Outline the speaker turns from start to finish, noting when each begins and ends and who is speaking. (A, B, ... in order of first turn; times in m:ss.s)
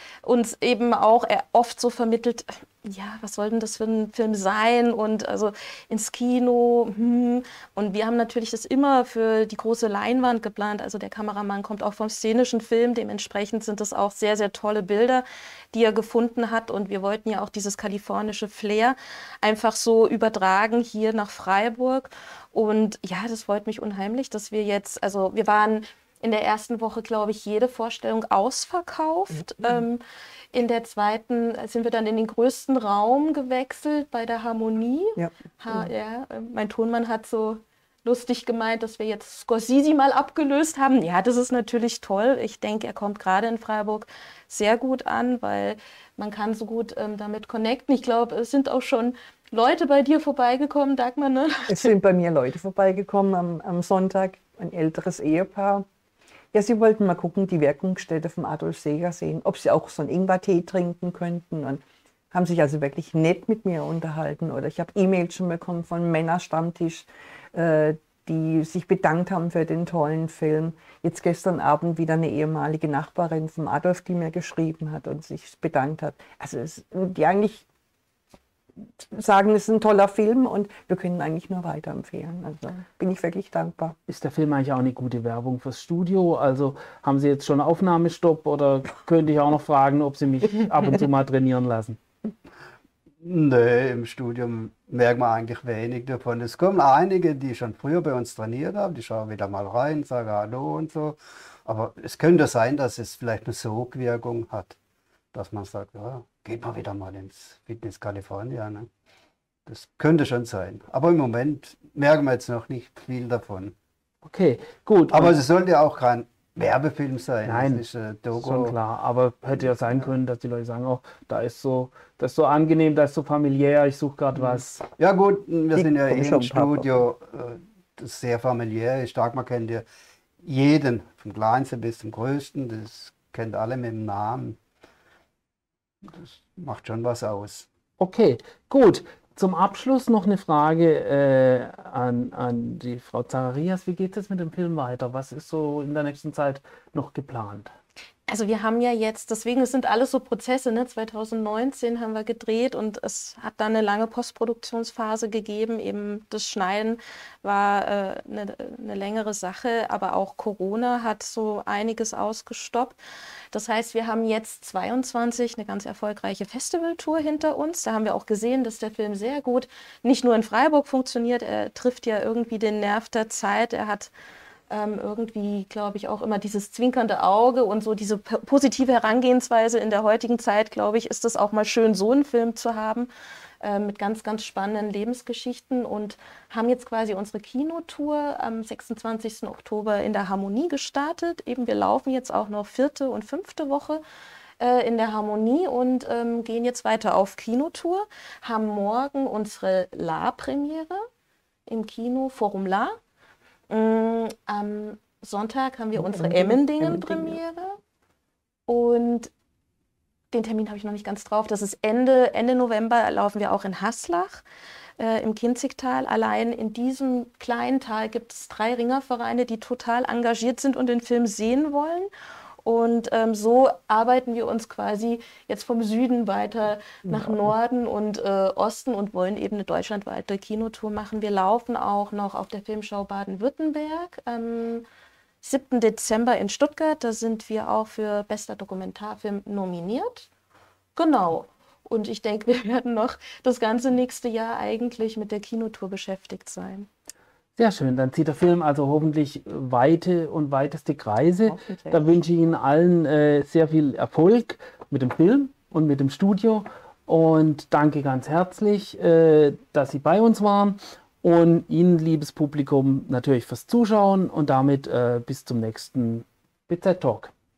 0:00.2-0:30.0 A
0:29.4-0:29.8 B
0:30.5-0:51.9 A
0:35.2-0:35.9 B
0:51.7-0:55.8 B
0:56.5-1:17.7 B
1:18.8-1:24.0 B
1:24.1-1:32.0 C
1:33.2-1:44.8 D
1:45.3-1:48.9 D
1:49.6-1:53.7 D
1:54.2-1:55.3 C
1:55.1-1:58.8 D
1:57.4-1:57.8 C
1:58.4-2:04.9 C
2:05.0-2:09.8 D
2:05.8-2:07.1 B
2:10.4-2:14.6 D
2:16.1-2:17.7 D
2:18.0-2:27.7 C
2:28.3-2:43.0 A
2:43.5-2:54.1 A
2:54.7-3:03.1 A
3:03.6-3:14.0 A
3:14.6-3:21.0 A
3:21.7-3:23.0 A
3:23.7-3:27.8 A
3:25.9-3:27.4 B
3:28.7-3:29.3 A
3:30.3-3:34.4 A
3:35.0-3:42.1 A
3:42.6-3:54.8 A
3:47.1-3:47.4 B
3:55.4-4:00.3 A
4:01.0-4:06.9 A
4:07.6-4:27.3 C
4:11.5-4:12.0 A